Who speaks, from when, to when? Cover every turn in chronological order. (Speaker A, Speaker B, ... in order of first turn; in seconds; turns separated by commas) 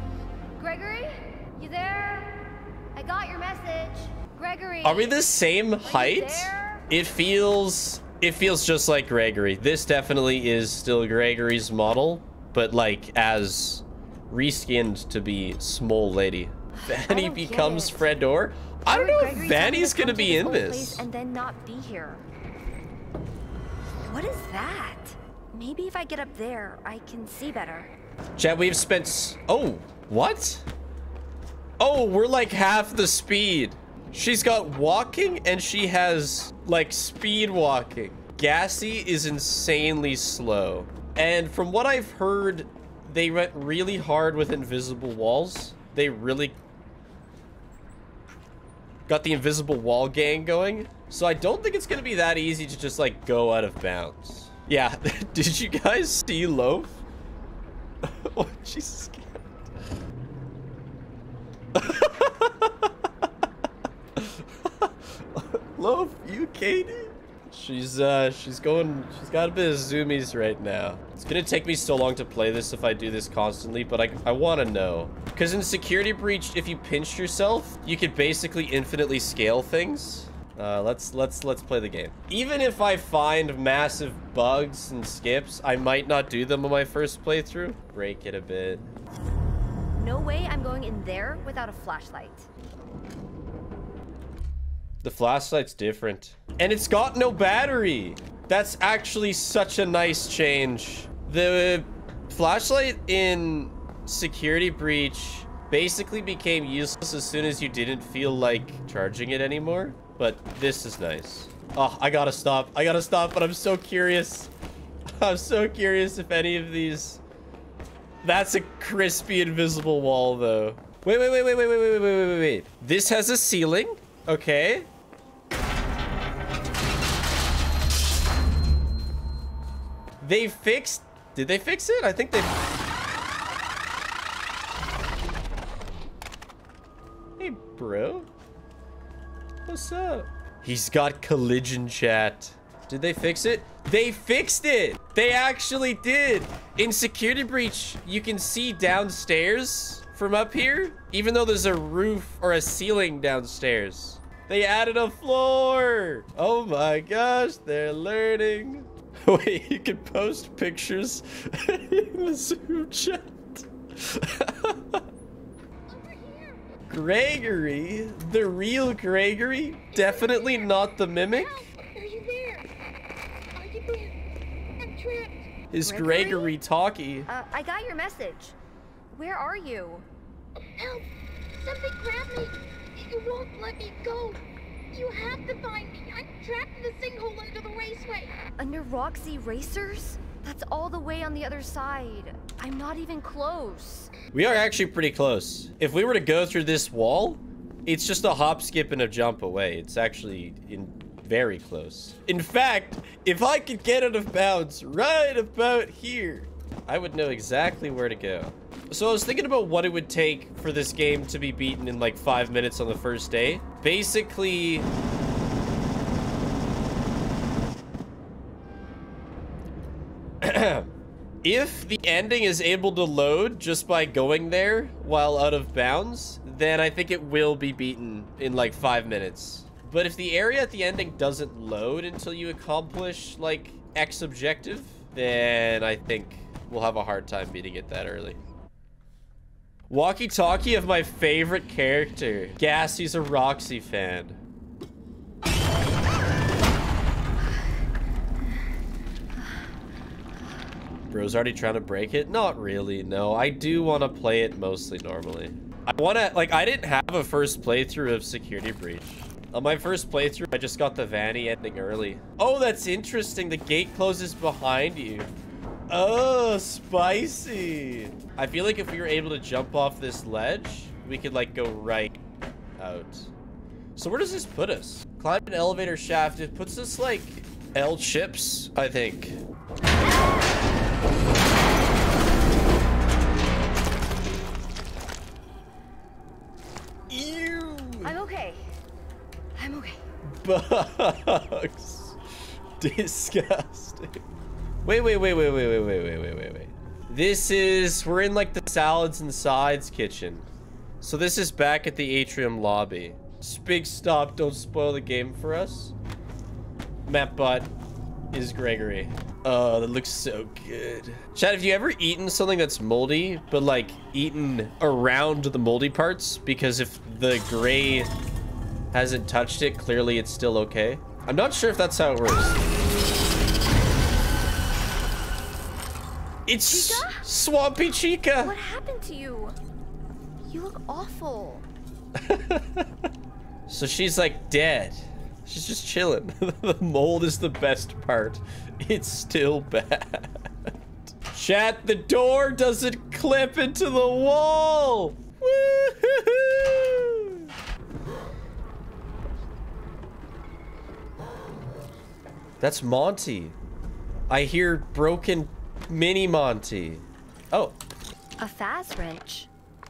Speaker A: 0.6-2.4, Speaker A: 3.0-5.2, Speaker B: 4.8-21.0, Speaker A: 5.8-6.8, Speaker A: 16.8-18.1, Speaker A: 18.9-22.2, Speaker A: 24.0-27.9, Speaker B: 28.4-30.7, Speaker B: 31.8-46.6, Speaker B: 49.1-57.0, Speaker B: 58.0-59.5, Speaker B: 61.8-62.9, Speaker B: 64.2-88.9, Speaker A: 90.0-92.5, Speaker B: 95.0-114.5, Speaker B: 115.1-117.2, Speaker B: 118.2-124.9, Speaker B: 130.2-132.5, Speaker B: 137.4-138.3, Speaker B: 139.7-165.0, Speaker C: 165.9-166.6, Speaker B: 166.9-171.7, Speaker C: 169.9-172.7, Speaker C: 173.5-174.2, Speaker C: 174.8-175.5, Speaker B: 175.7-177.3, Speaker A: 175.8-176.5, Speaker A: 177.3-178.6, Speaker A: 179.1-180.1, Speaker C: 180.8-188.3, Speaker A: 188.6-194.1, Speaker B: 194.3-214.9, Speaker B: 220.4-220.9, Speaker B: 221.4-238.4, Speaker B: 239.9-244.4, Speaker B: 251.1-265.3, Speaker B: 265.9-272.2, Speaker B: 272.8-273.3, Speaker B: 274.0-279.4, Speaker B: 287.1-288.1, Speaker A: 288.0-288.6, Speaker A: 289.6-290.0, Speaker B: 290.4-292.2, Speaker B: 292.8-294.2, Speaker B: 294.9-300.5, Speaker B: 301.0-305.9, Speaker B: 307.1-307.7, Speaker B: 308.3-318.1, Speaker B: 318.9-322.6, Speaker B: 326.5-328.5, Speaker A: 326.7-327.2, Speaker A: 328.4-329.6, Speaker A: 330.5-331.7, Speaker B: 332.2-332.9, Speaker B: 333.7-340.4, Speaker B: 341.2-347.5, Speaker B: 352.6-353.6, Speaker B: 354.3-357.8, Speaker A: 358.4-359.5